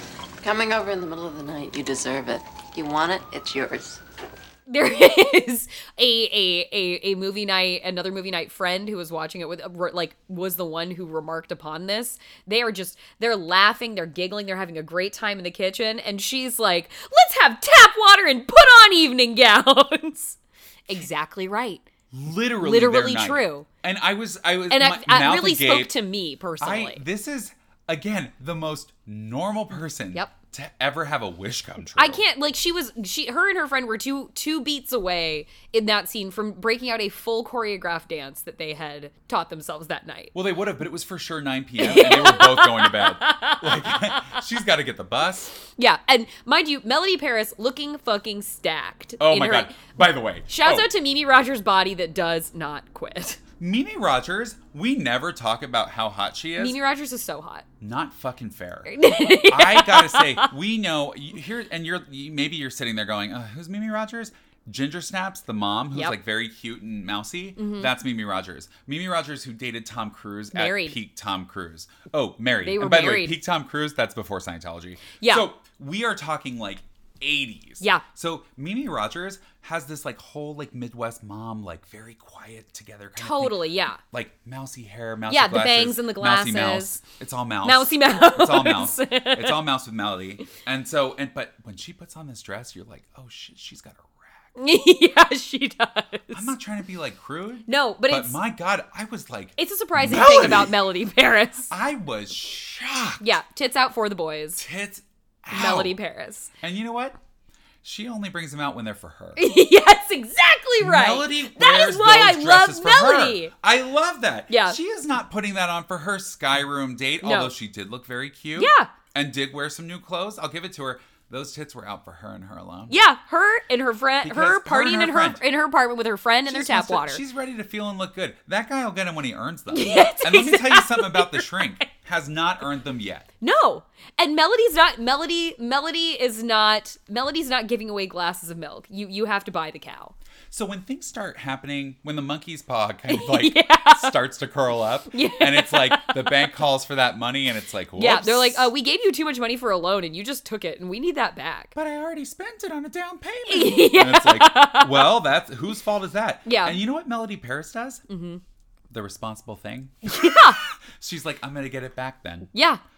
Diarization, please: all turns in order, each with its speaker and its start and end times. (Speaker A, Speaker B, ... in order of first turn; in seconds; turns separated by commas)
Speaker A: 0.4-4.0, Speaker B: 4.7-20.4, Speaker B: 20.9-21.8, Speaker C: 22.1-26.0, Speaker B: 22.6-23.6, Speaker B: 24.7-27.0, Speaker C: 26.6-32.2, Speaker B: 32.0-40.3, Speaker C: 40.3-45.5, Speaker B: 41.8-44.4, Speaker B: 45.7-49.8, Speaker C: 49.2-50.9, Speaker B: 50.5-53.4, Speaker C: 53.6-56.8, Speaker B: 56.6-57.6, Speaker C: 57.8-94.5, Speaker B: 58.9-60.5, Speaker B: 67.6-67.9, Speaker B: 70.5-71.0, Speaker B: 72.6-73.4, Speaker B: 75.2-75.5, Speaker B: 83.2-84.0, Speaker B: 85.3-87.0, Speaker B: 87.6-89.6, Speaker B: 94.5-96.5, Speaker C: 96.3-100.8, Speaker B: 97.7-98.4, Speaker B: 99.6-101.7, Speaker C: 101.7-103.3, Speaker B: 103.2-104.6, Speaker C: 104.6-106.0, Speaker B: 105.5-106.5, Speaker C: 106.6-107.2, Speaker C: 107.8-109.4, Speaker B: 109.3-113.5, Speaker C: 110.8-123.0, Speaker B: 114.5-114.8, Speaker B: 117.2-117.5, Speaker B: 118.5-118.9, Speaker B: 122.9-127.2, Speaker C: 124.2-125.4, Speaker C: 126.4-133.3, Speaker B: 129.7-131.8, Speaker B: 133.4-140.1, Speaker C: 140.5-148.7, Speaker B: 143.1-144.1, Speaker B: 145.1-146.4, Speaker B: 147.9-151.7, Speaker C: 151.7-158.0, Speaker B: 153.5-155.1, Speaker B: 156.4-156.8, Speaker B: 158.1-158.4, Speaker C: 158.9-162.5, Speaker B: 160.1-160.6, Speaker B: 162.5-162.8